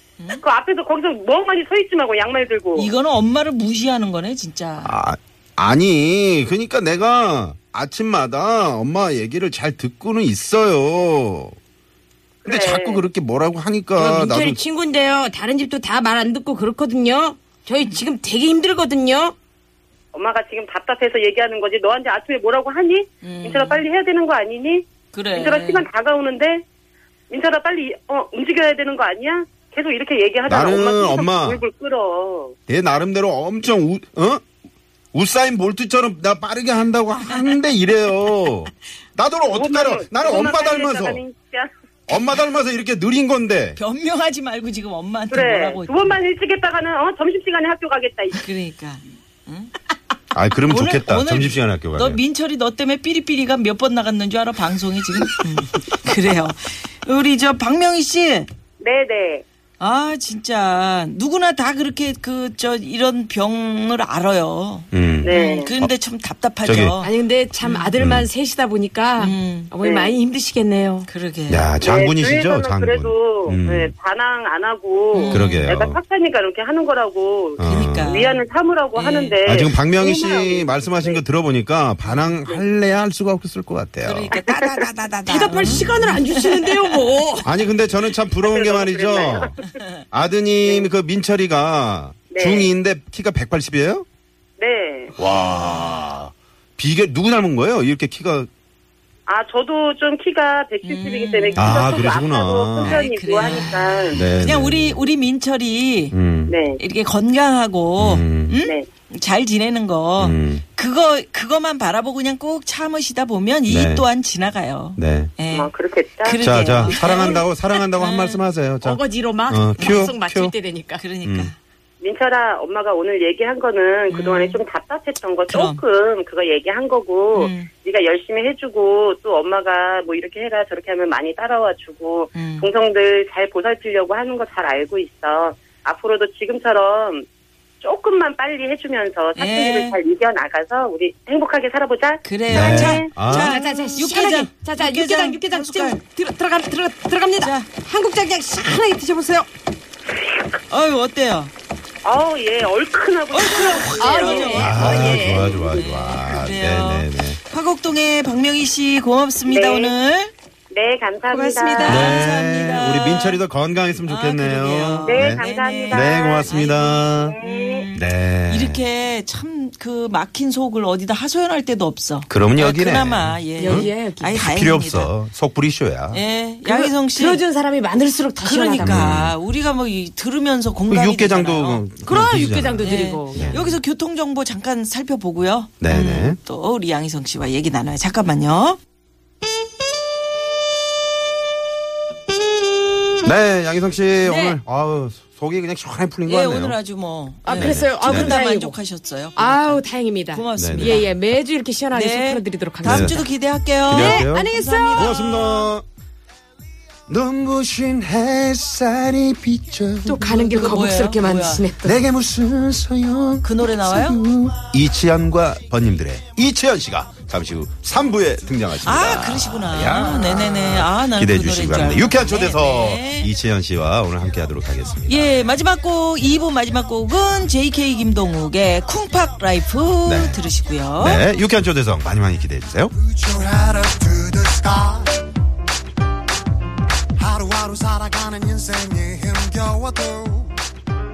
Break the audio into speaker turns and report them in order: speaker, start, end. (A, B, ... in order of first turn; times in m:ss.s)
0:00.4-0:02.9 A
0:02.7-0:04.9 B
0:04.8-0:11.5 C
0:12.4-0:13.0 A
0:12.4-0:14.6 C
0:13.9-0:19.3 D
0:20.1-0:26.6 A
0:23.2-0:23.8 B
0:25.1-0:25.9 B
0:27.3-0:32.5 A
0:30.5-0:31.6 C
0:32.7-0:34.4 C
0:35.1-0:41.2 C
0:37.3-0:37.5 B
0:39.5-0:41.7 A
0:42.1-0:43.8 C
0:43.8-0:46.1 B
0:45.3-0:48.4 A
0:48.3-0:49.7 B
0:50.3-0:52.2 C
0:50.6-0:58.5 B
0:58.8-0:59.4 A
0:59.8-1:07.1 B
1:04.9-1:05.9 C
1:05.2-1:05.7 A
1:06.6-1:07.0 C
1:07.0-1:11.1 D
1:07.6-1:07.9 B
1:08.0-1:08.3 C
1:09.2-1:09.7 B
1:09.8-1:10.2 A
1:11.1-1:11.7 B
1:11.5-1:13.9 C
1:11.8-1:21.2 A
1:15.1-1:15.7 B
1:15.3-1:16.0 C
1:17.6-1:18.2 C
1:17.6-1:18.4 B
1:18.9-1:19.4 B
1:19.4-1:24.3 C
1:24.0-1:27.0 B
1:24.3-1:24.7 A
1:25.2-1:27.5 D
1:25.6-1:26.0 C
1:27.4-1:29.5 C
1:28.5-1:29.6 A
1:30.1-1:34.0 C
1:30.6-1:30.9 A
1:32.3-1:32.7 A
1:34.6-1:35.1 A
1:35.2-1:38.5 C
1:35.7-1:36.0 B
1:39.3-1:44.2 A
1:40.8-1:42.0 B
1:41.6-1:43.0 C
1:42.8-1:46.2 B
1:44.1-1:45.0 C
1:46.1-1:46.6 C
1:46.5-1:46.8 A
1:46.8-1:55.7 B
1:48.0-1:48.6 C
1:50.2-1:50.6 C
1:53.7-1:54.1 C
1:55.0-1:55.3 C
1:55.5-1:57.4 A
1:56.2-1:58.4 B
1:56.4-2:00.5 C
1:58.8-2:01.0 D
1:59.8-2:00.1 B
2:00.9-2:01.6 B
2:01.2-2:01.5 C
2:02.0-2:17.2 A
2:04.1-2:04.6 B
2:05.5-2:05.8 B
2:07.3-2:07.7 B
2:12.3-2:12.7 B
2:17.8-2:23.1 A
2:19.4-2:20.0 B
2:22.2-2:26.0 B
2:22.5-2:23.6 C
2:23.3-2:29.5 D
2:27.4-2:27.7 B
2:30.7-2:31.5 B
2:32.0-2:35.9 A
2:33.3-2:40.3 B
2:33.8-2:35.6 D
2:34.5-2:37.4 C
2:39.5-2:39.9 A
2:40.7-2:42.1 A
2:41.3-2:43.4 D
2:41.8-2:47.4 C
2:41.8-2:42.2 B
2:44.0-2:55.1 B
2:45.0-2:46.6 A
2:47.2-2:47.8 A
2:47.9-2:48.8 C
2:52.3-2:56.2 C
2:53.6-2:54.4 D
2:56.1-2:57.4 B
2:56.6-2:59.1 D
2:58.4-3:01.8 B
2:58.8-2:59.4 C
3:00.9-3:03.7 C
3:02.0-3:03.8 D
3:02.8-3:08.8 B
3:05.8-3:06.4 C
3:13.2-3:16.8 C
3:14.2-3:14.6 D
3:16.2-3:21.1 B
3:17.4-3:18.8 D
3:17.5-3:18.3 C
3:19.4-3:23.2 D
3:20.5-3:21.0 C
3:21.9-3:25.2 B
3:22.8-3:23.2 C
3:23.9-3:25.8 C
3:23.9-3:25.7 D
3:27.1-3:30.3 C
3:30.0-3:32.0 D
3:30.3-3:31.7 B
3:31.8-3:45.4 C
3:33.4-3:34.2 B
3:38.8-3:43.3 B
3:45.1-3:51.2 B
3:50.0-3:50.4 C
3:51.0-3:52.9 C
3:53.0-3:55.2 E
3:57.2-4:00.6 E